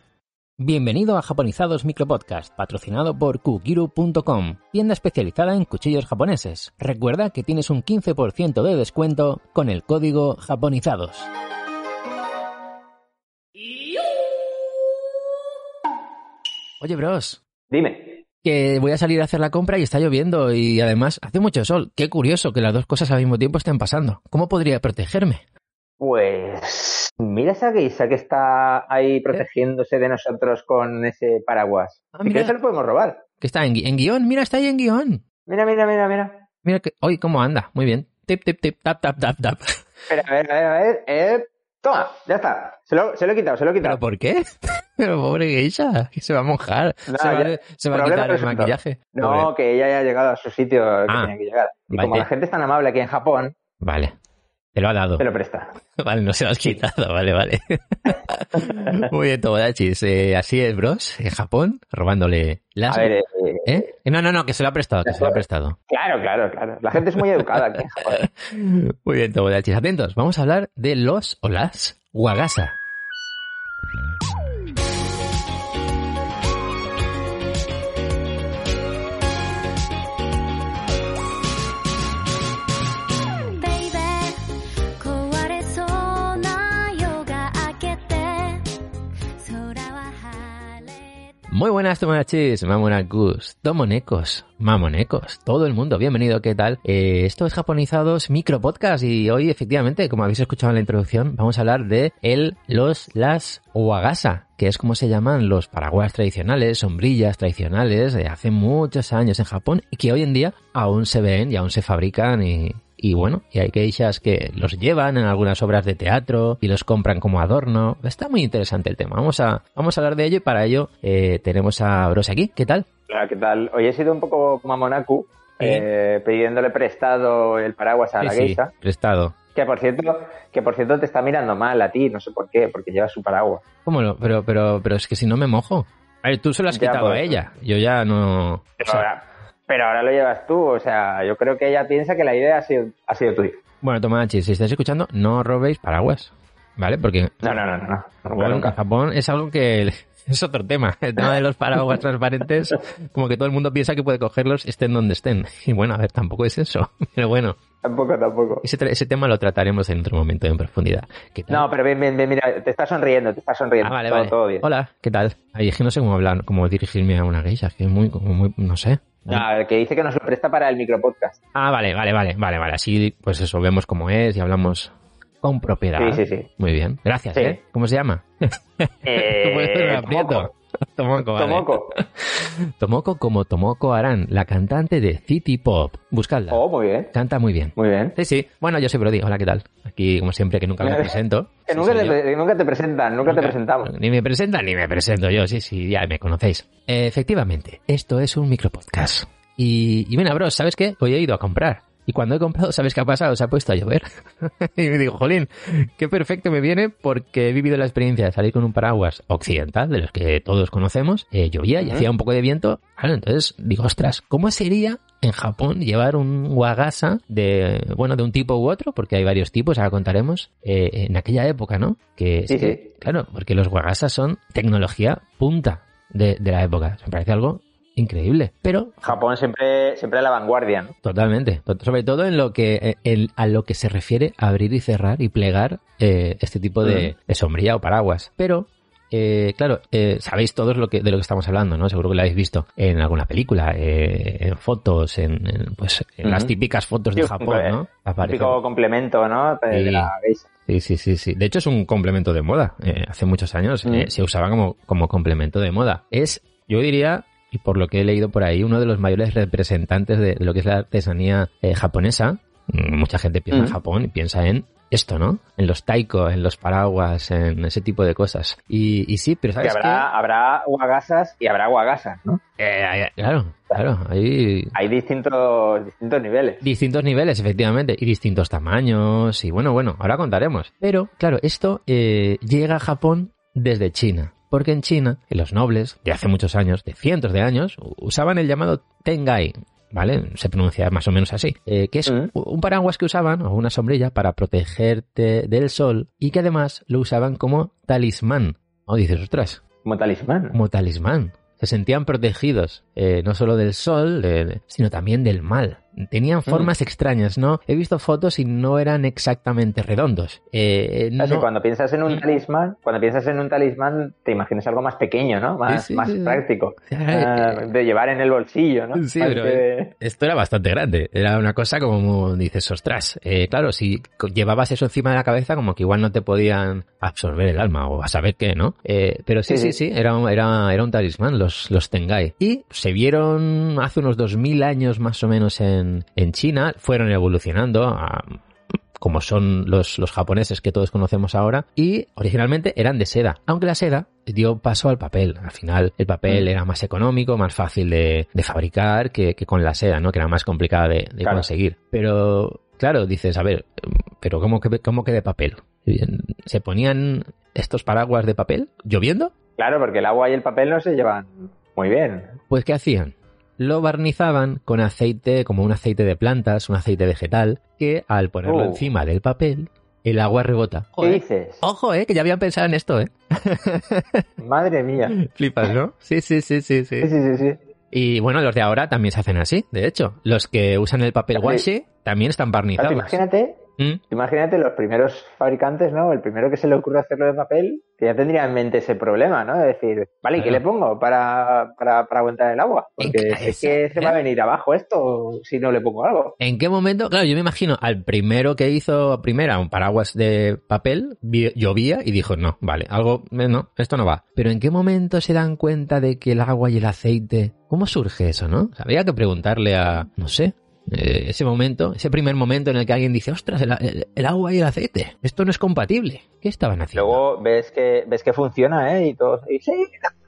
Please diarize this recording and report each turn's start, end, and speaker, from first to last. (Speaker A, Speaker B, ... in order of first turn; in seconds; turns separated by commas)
Speaker A: 0.6-11.3, Speaker A: 16.8-17.4, Speaker B: 17.7-18.2, Speaker A: 18.4-25.4, Speaker B: 26.0-33.2, Speaker A: 32.1-32.5, Speaker A: 33.4-35.2, Speaker B: 35.5-36.5, Speaker A: 36.6-39.8, Speaker B: 40.1-44.0, Speaker A: 43.8-49.5, Speaker B: 47.1-53.5, Speaker A: 51.9-52.3, Speaker A: 53.8-54.1, Speaker A: 54.7-55.2, Speaker B: 55.2-55.7, Speaker A: 56.0-63.1, Speaker B: 58.6-59.0, Speaker B: 62.9-63.8, Speaker A: 63.6-65.8, Speaker B: 65.0-68.2, Speaker A: 67.2-67.4, Speaker A: 68.1-72.8, Speaker C: 83.3-84.4, Speaker C: 85.0-88.7, Speaker C: 89.3-91.1, Speaker A: 91.5-122.8, Speaker B: 123.1-128.7, Speaker A: 125.6-125.8, Speaker A: 128.2-129.3, Speaker B: 129.5-133.6, Speaker A: 133.8-139.1, Speaker B: 136.7-137.4, Speaker B: 138.8-143.6, Speaker A: 143.8-147.6, Speaker B: 147.4-148.8, Speaker A: 148.3-157.6, Speaker B: 157.8-158.6, Speaker A: 158.6-161.7, Speaker B: 161.5-164.7, Speaker A: 163.8-169.4, Speaker B: 169.3-171.4, Speaker A: 171.5-186.6, Speaker B: 176.0-176.5, Speaker B: 179.0-180.5, Speaker B: 181.3-182.0, Speaker B: 186.5-187.1, Speaker A: 187.1-192.2, Speaker B: 187.8-188.1, Speaker B: 190.8-191.2, Speaker B: 191.7-193.9, Speaker A: 193.2-229.1, Speaker B: 222.5-222.9, Speaker B: 229.0-230.9, Speaker A: 231.0-248.6, Speaker B: 236.8-237.1, Speaker B: 246.2-246.5, Speaker B: 247.2-250.4, Speaker A: 249.7-250.1, Speaker A: 250.7-270.1, Speaker B: 263.5-263.8, Speaker B: 269.6-272.4, Speaker A: 272.6-274.7, Speaker B: 274.7-276.6, Speaker A: 276.6-299.6, Speaker B: 299.8-300.6, Speaker A: 300.5-311.5, Speaker B: 311.2-319.9, Speaker A: 315.7-317.6, Speaker A: 318.9-338.4, Speaker B: 329.5-329.8, Speaker A: 339.0-359.3, Speaker B: 351.2-351.5, Speaker B: 359.6-362.4, Speaker A: 362.5-374.2, Speaker B: 368.4-368.8, Speaker B: 371.0-371.6, Speaker B: 374.4-375.1, Speaker A: 375.1-377.1, Speaker B: 377.0-377.6, Speaker A: 377.9-383.2, Speaker B: 381.4-381.6, Speaker B: 382.8-396.4, Speaker A: 393.0-394.2, Speaker A: 396.4-417.2, Speaker B: 416.9-420.1